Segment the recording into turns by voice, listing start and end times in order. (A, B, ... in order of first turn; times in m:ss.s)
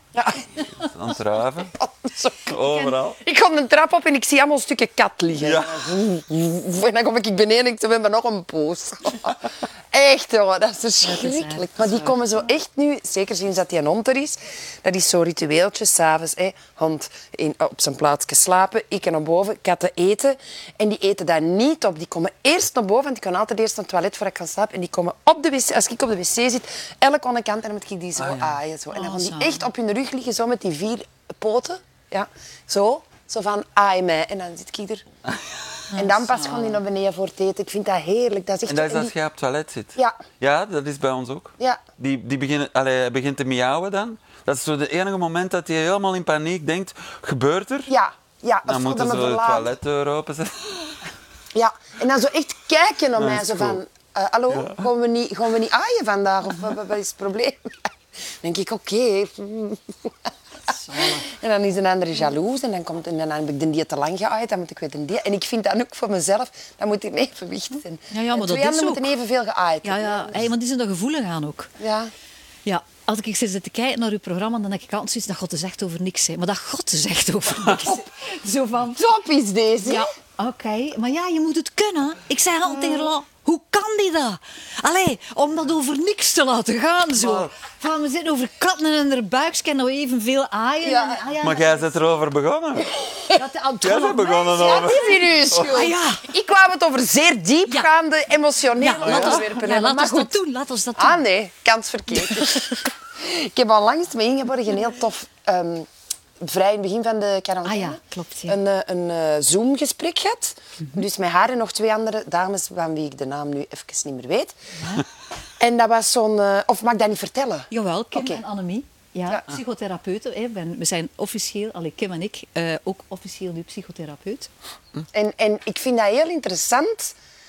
0:00.1-0:00.4 A
0:00.7-0:01.7 B
0:01.8-0:02.6 A
0:02.5-0:03.2 B
0:02.7-0:02.9 C
0:03.2-0:35.0 A
0:05.4-0:05.9 B
0:11.0-0:12.2 C
0:28.2-0:28.6 B
0:28.9-0:29.7 C
0:35.2-0:35.8 B
0:35.9-0:36.8 C
0:36.0-0:39.1 A
0:38.7-0:47.9 B
0:47.9-0:49.7 A
0:48.6-0:50.9 B
0:51.5-0:57.9 A
0:53.2-0:53.8 B
0:54.5-0:54.8 B
0:58.4-1:00.1 A
1:00.7-1:01.3 C
1:01.2-1:10.4 A
1:08.1-1:09.1 C
1:09.8-1:11.7 C
1:11.8-1:12.1 A
1:12.6-1:19.0 C
1:18.9-1:20.0 A
1:19.8-1:32.0 C
1:22.7-1:23.1 A
1:27.2-1:27.5 B
1:30.8-1:31.2 A
1:31.4-1:32.9 B
1:33.0-1:33.4 A
1:33.3-1:35.0 C
1:33.8-1:35.8 B
1:34.4-1:40.4 A
1:35.6-1:36.3 C
1:38.8-1:41.2 C
1:39.0-1:39.4 B
1:41.0-1:45.9 A
1:46.4-1:54.5 A
1:47.6-1:48.6 C
1:54.7-1:55.0 C
1:55.6-1:58.4 A
1:57.7-2:04.5 C
2:05.1-2:07.1 A